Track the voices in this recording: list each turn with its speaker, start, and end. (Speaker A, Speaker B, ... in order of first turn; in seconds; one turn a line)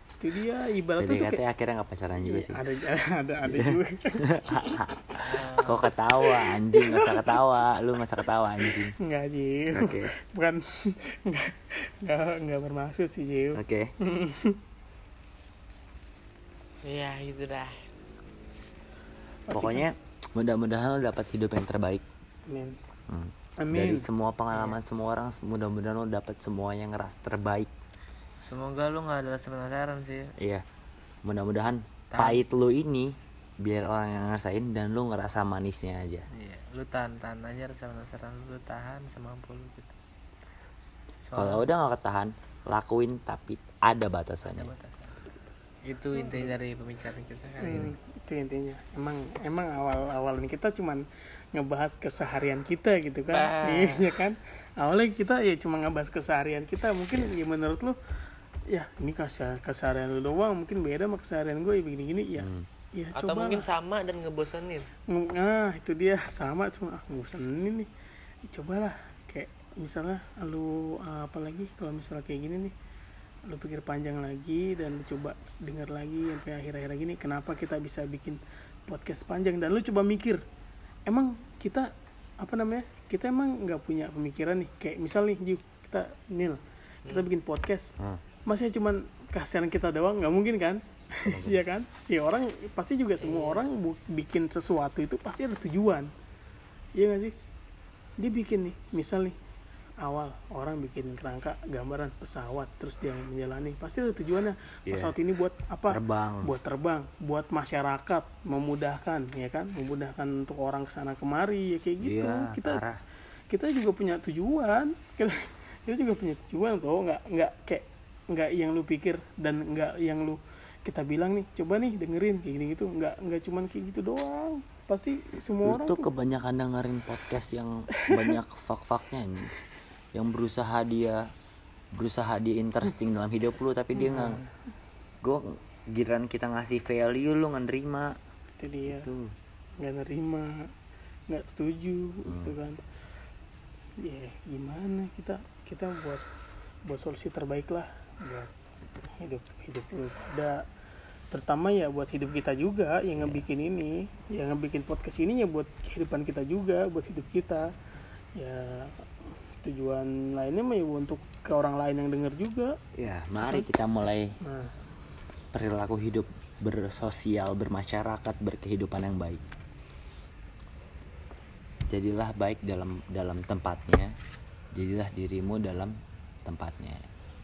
Speaker A: 0.2-1.4
Speaker B: 1.0-2.6
Speaker A: 2.2-5.2
Speaker B: 3.4-8.9
Speaker C: 5.2-5.8
Speaker A: 6.2-7.4
Speaker A: 8.7-14.6
Speaker B: 9.7-10.1
Speaker B: 13.6-13.9
Speaker C: 16.8-17.9
Speaker A: 19.5-19.9
Speaker B: 19.5-22.0
Speaker A: 22.5-22.8
Speaker B: 23.1-27.7
Speaker A: 23.6-24.1
Speaker C: 24.5-24.8
Speaker C: 28.4-30.3
Speaker B: 30.4-30.6
Speaker B: 31.2-36.3
Speaker C: 32.1-32.4
Speaker C: 36.3-40.0
Speaker C: 41.2-41.6
Speaker B: 41.3-44.7
Speaker C: 44.5-45.3
Speaker C: 45.8-47.9
Speaker A: 46.0-46.6
Speaker A: 47.6-58.0
Speaker C: 53.3-54.1
Speaker A: 58.7-63.7
Speaker B: 62.4-62.7
Speaker C: 63.1-64.9
Speaker A: 65.1-67.9
Speaker A: 68.5-72.7
Speaker A: 73.5-80.4
Speaker A: 81.1-87.9
Speaker A: 88.5-96.1
Speaker B: 91.2-91.6
Speaker C: 93.2-93.7
Speaker A: 97.0-97.3
Speaker A: 98.2-99.4
Speaker A: 100.0-112.8
Speaker B: 104.9-105.2
Speaker B: 105.9-106.5
Speaker B: 112.0-113.0
Speaker A: 113.5-126.1
Speaker B: 125.6-129.6
Speaker A: 128.0-128.4
Speaker B: 130.1-131.3
Speaker B: 131.9-134.4
Speaker A: 134.0-134.6
Speaker B: 135.2-138.2
Speaker A: 138.6-139.1
Speaker B: 138.9-139.3
Speaker A: 139.8-140.7
Speaker A: 141.3-142.8
Speaker B: 142.3-142.6
Speaker A: 144.0-146.2
Speaker A: 146.8-148.5
Speaker A: 149.2-150.7
Speaker A: 151.3-157.7
Speaker B: 153.2-153.4
Speaker A: 158.3-162.8
Speaker B: 162.9-164.4
Speaker A: 164.4-164.8
Speaker B: 165.5-169.4
Speaker B: 171.9-174.2
Speaker B: 174.7-177.1